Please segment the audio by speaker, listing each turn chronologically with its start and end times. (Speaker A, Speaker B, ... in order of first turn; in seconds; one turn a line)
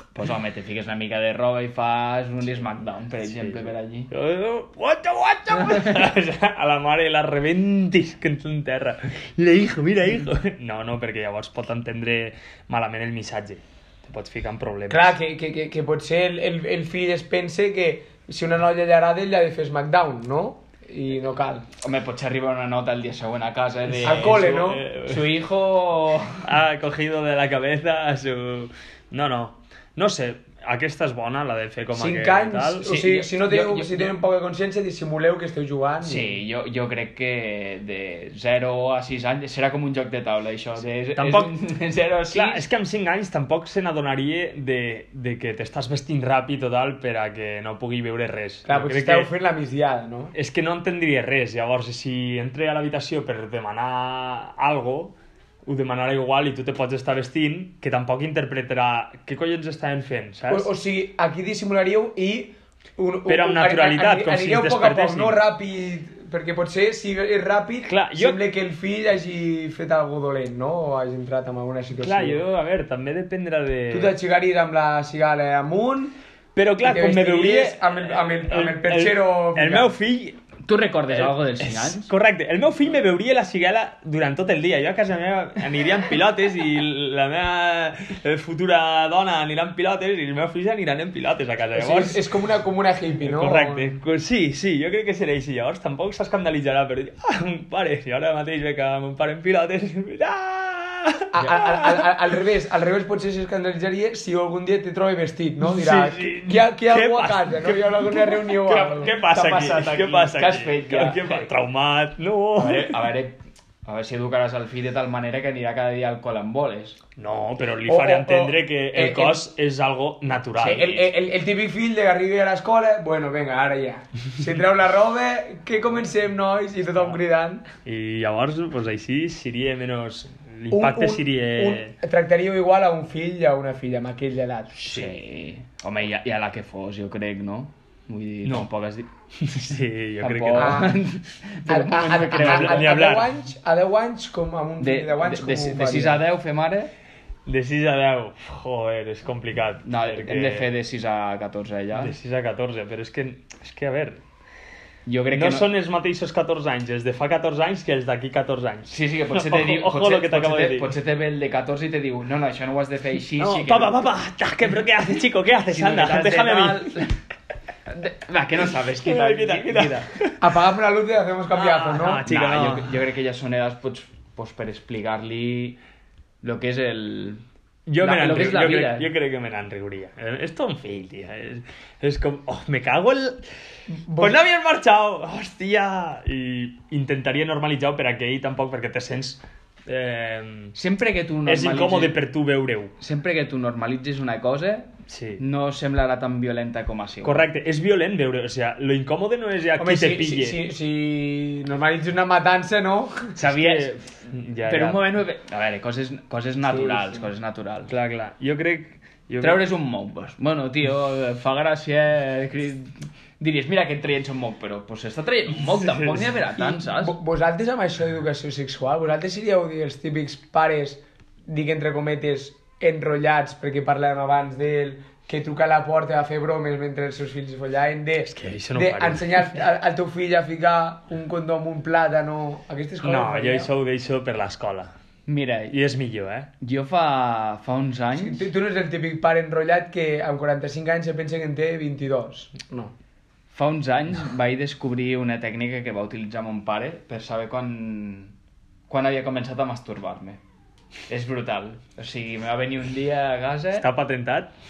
Speaker A: 0.1-4.1
Speaker B: 3.3-15.1
Speaker C: 14.9-21.7
Speaker A: 21.8-26.4
Speaker B: 23.9-25.3
Speaker C: 24.0-24.8
Speaker B: 26.4-32.9
Speaker C: 31.9-36.4
Speaker A: 32.8-34.1
Speaker A: 36.0-42.6
Speaker B: 41.1-41.5
Speaker B: 42.3-49.3
Speaker C: 48.6-50.3
Speaker B: 50.3-55.1
Speaker B: 55.6-60.7
Speaker C: 60.5-72.4
Speaker B: 63.3-65.4
Speaker B: 67.9-68.4
Speaker B: 72.0-74.1
Speaker C: 73.9-76.2
Speaker B: 76.5-80.4
Speaker C: 76.8-79.9
Speaker A: 80.6-82.1
Speaker B: 81.1-92.3
Speaker C: 91.7-93.8
Speaker B: 93.2-102.1
Speaker C: 101.3-109.1
Speaker B: 105.6-113.0
Speaker A: 108.6-111.4
Speaker A: 112.5-117.0
Speaker B: 117.2-121.1
Speaker C: 117.8-119.4
Speaker C: 120.6-127.7
Speaker B: 127.8-131.9
Speaker C: 130.7-134.7
Speaker B: 134.8-135.2
Speaker A: 134.8-139.1
Speaker B: 138.4-138.7
Speaker B: 139.4-140.9
Speaker A: 140.2-143.0
Speaker C: 140.5-141.0
Speaker C: 141.7-146.2
Speaker B: 142.3-143.4
Speaker A: 144.8-146.9
Speaker B: 147.4-150.7
Speaker A: 149.8-152.1
Speaker B: 151.9-154.2
Speaker A: 155.1-155.7
Speaker B: 155.3-160.9
Speaker A: 158.9-164.1
Speaker B: 163.4-167.0
Speaker A: 165.7-167.2
Speaker A: 167.9-170.1
Speaker B: 169.0-170.4
Speaker C: 170.4-172.2
Speaker B: 171.5-173.0
Speaker A: 172.2-175.8
Speaker A: 176.4-177.4
Speaker B: 177.9-183.4
Speaker A: 178.0-179.1
Speaker C: 183.9-184.4
Speaker B: 184.2-190.8
Speaker A: 190.7-192.2
Speaker B: 191.4-192.9
Speaker A: 193.0-197.4
Speaker B: 195.1-195.4
Speaker B: 197.2-200.6
Speaker C: 199.8-203.3
Speaker A: 203.3-207.9
Speaker B: 203.4-205.0
Speaker C: 206.7-207.2
Speaker B: 207.9-209.6
Speaker A: 209.4-217.2
Speaker B: 215.6-216.3
Speaker C: 216.6-233.7
Speaker B: 228.3-229.5
Speaker B: 233.0-234.9
Speaker A: 235.2-235.7
Speaker B: 235.7-236.5
Speaker A: 236.6-238.4
Speaker C: 238.1-242.9
Speaker A: 243.5-248.3
Speaker A: 248.9-250.4
Speaker A: 251.1-253.9
Speaker B: 253.7-254.5